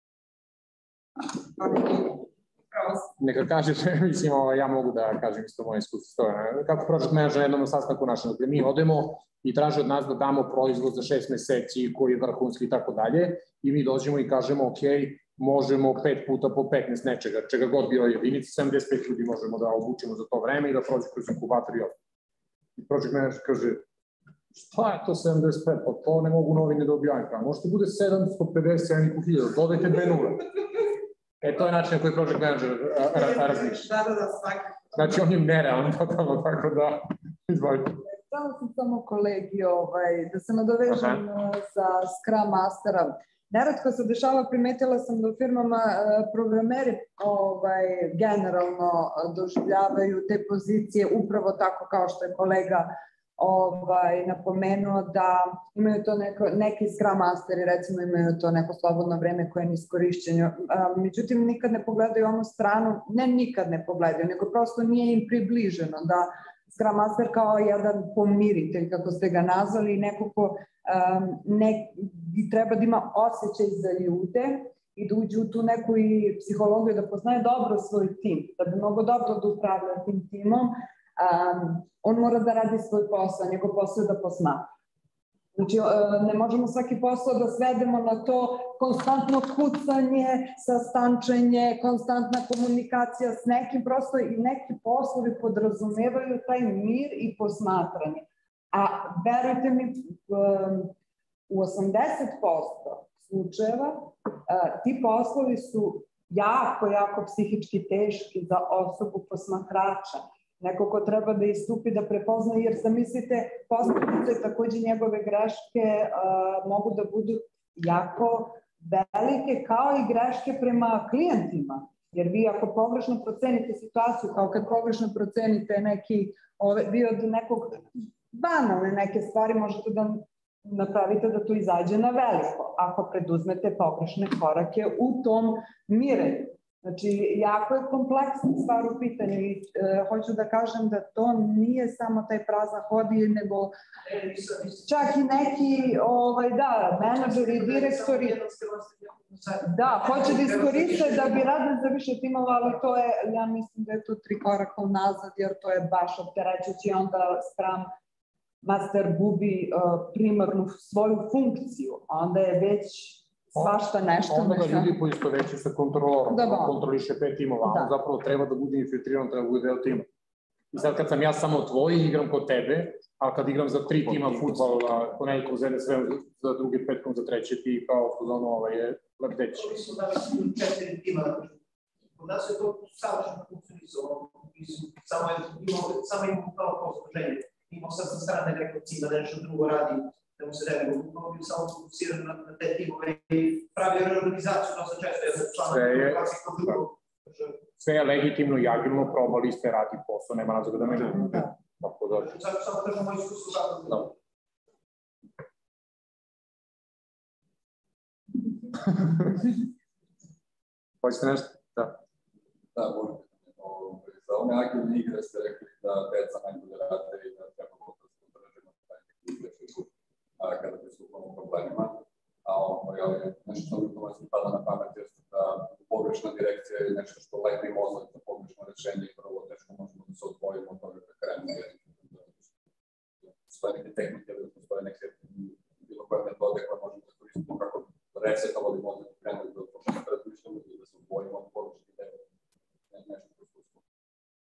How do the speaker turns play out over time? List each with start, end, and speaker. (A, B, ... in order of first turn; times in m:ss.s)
0:01.5-0:03.1 A
0:03.2-0:22.0 B
0:22.8-0:23.8 B
0:24.5-0:30.4 B
0:31.4-0:33.9 B
0:33.1-0:35.1 A
0:35.0-0:38.0 B
0:38.1-1:24.7 C
0:40.9-0:41.2 B
1:25.6-1:40.9 C
1:41.5-2:23.8 C
2:24.1-2:25.4 D
2:24.8-2:28.4 C
2:27.0-2:31.5 D
2:29.6-2:37.9 C
2:38.6-2:44.9 C
2:43.6-2:50.1 B
2:46.3-2:46.8 C
2:47.6-2:47.9 C
2:50.7-2:59.7 B
2:59.5-3:01.6 D
3:02.2-3:17.6 D
3:15.6-3:16.8 B
3:17.8-3:22.4 B
3:22.2-3:24.2 D
3:31.0-3:32.0 B
3:32.8-3:52.4 E
3:53.2-4:02.2 E
4:02.9-4:03.8 E